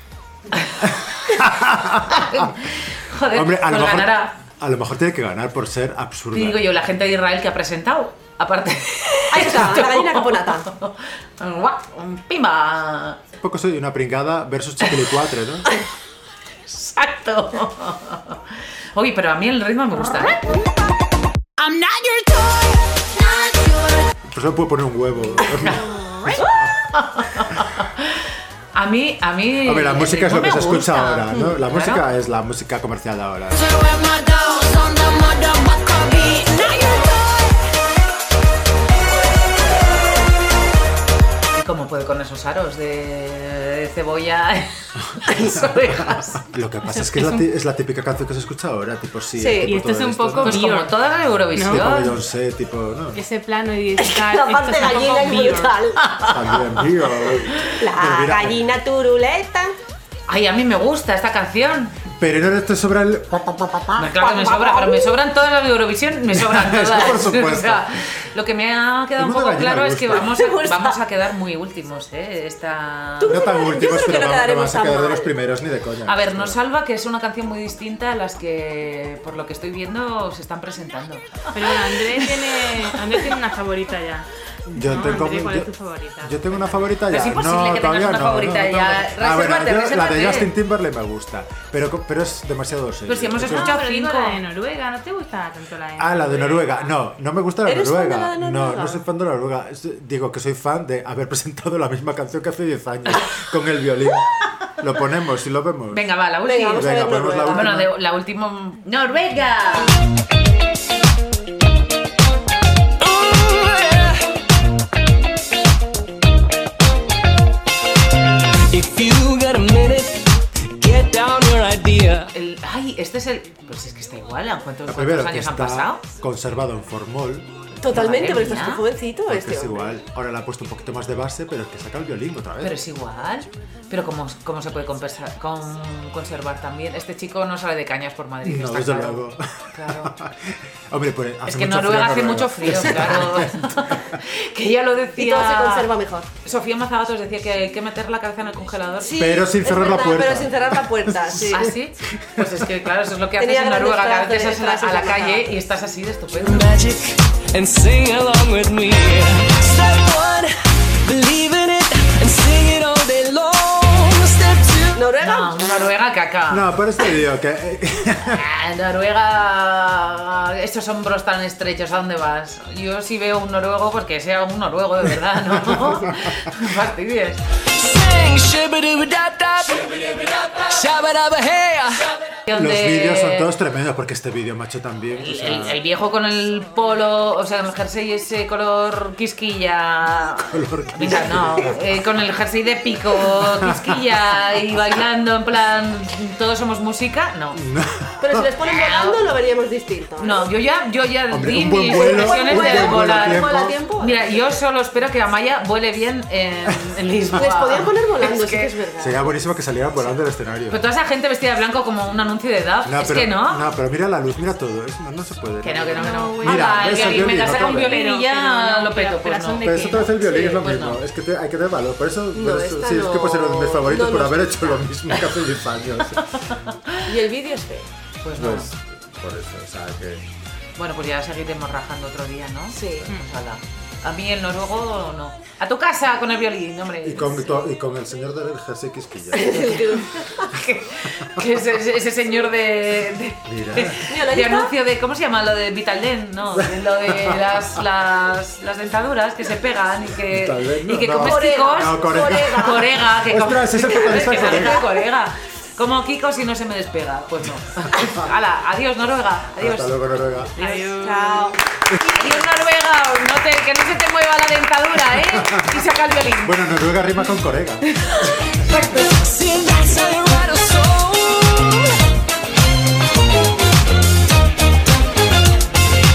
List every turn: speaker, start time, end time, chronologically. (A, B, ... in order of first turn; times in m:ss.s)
0:00.5-0:00.9 A
0:00.8-0:02.7 B
0:02.1-0:04.3 A
0:03.3-0:06.7 B
0:06.3-0:13.2 A
0:09.3-0:10.7 C
0:13.4-0:15.7 B
0:16.7-0:20.5 A
0:21.6-0:24.1 D
0:24.2-0:26.6 B
0:25.5-0:25.9 A
0:25.9-0:26.4 D
0:26.4-0:32.0 A
0:29.6-0:33.6 B
0:33.5-0:37.7 D
0:41.5-0:46.4 A
0:45.2-0:50.8 B
0:46.9-0:47.5 E
0:49.4-0:49.7 C
0:49.6-0:50.9 E
0:50.4-0:52.2 A
0:51.5-0:52.0 E
0:51.6-0:53.2 B
0:53.1-0:55.7 E
0:54.0-0:56.0 C
0:56.0-0:56.7 A
0:56.2-0:58.6 B
0:57.6-0:59.8 C
1:00.3-1:02.0 A
1:02.2-1:03.8 B
1:03.9-1:13.4 A
1:04.1-1:05.1 C
1:06.3-1:08.0 B
1:09.2-1:10.4 B
1:10.1-1:11.0 C
1:13.2-1:15.3 C
1:13.2-1:16.6 B
1:16.0-1:23.3 A
1:21.5-1:24.3 E
1:24.7-1:33.8 B
1:24.8-1:26.8 E
1:27.1-1:30.5 A
1:33.1-1:34.4 A
1:33.4-1:36.9 E
1:36.0-1:46.0 B
1:37.6-1:39.0 C
1:45.9-1:46.8 A
1:46.4-1:47.9 C
1:46.6-1:47.8 B
1:47.5-1:50.0 A
1:53.0-1:54.2 F
1:58.7-2:02.3 F
2:02.3-2:06.0 A
2:04.9-2:07.7 B
2:07.8-2:09.9 C
2:07.9-2:08.8 A
2:09.2-2:12.8 B
2:12.6-2:20.1 A
2:18.4-2:24.2 B
2:21.4-2:25.9 A
2:25.2-2:26.3 C
2:26.4-2:29.1 A
2:29.0-2:31.7 C
2:29.2-2:32.6 B
2:31.5-2:36.7 A
2:33.4-2:35.5 C
2:36.3-2:40.5 F
2:41.0-2:45.1 F
2:44.9-2:45.9 C
2:45.2-2:46.7 A
2:46.5-2:48.4 B
2:48.3-2:57.4 A
2:55.5-2:56.1 B
2:57.7-3:02.1 F
3:02.5-3:03.5 A
3:02.5-3:05.8 B
3:05.2-3:17.6 A
3:10.5-3:12.0 B
3:13.2-3:14.2 B
3:17.5-3:18.5 B
3:18.2-3:20.4 C
3:18.6-3:19.2 A
3:20.2-3:28.7 A
3:21.3-3:23.7 B
3:21.9-3:24.6 C
3:27.4-3:29.4 C
3:29.0-3:30.8 B
3:30.7-3:33.6 A
3:32.8-3:38.0 B
3:35.6-3:41.0 A
3:36.0-3:40.1 E
3:39.6-3:46.2 B
3:42.3-3:44.8 C
3:46.5-3:47.0 A
3:47.0-3:47.9 C
3:48.2-3:48.7 A
3:48.3-3:50.2 B
3:50.8-3:57.5 A
3:52.7-3:53.1 C
3:57.0-3:59.7 B
3:59.3-4:00.5 C
4:00.4-4:21.5 A
4:03.4-4:04.0 B
4:04.0-4:04.7 C
4:06.6-4:07.8 B
4:10.3-4:14.8 B
4:11.2-4:13.1 C
4:13.8-4:15.0 C
4:19.6-4:20.5 B
4:20.6-4:22.3 C
4:22.2-4:26.6 A
4:25.2-4:25.8 B
4:26.4-4:27.8 B
4:28.7-4:31.9 F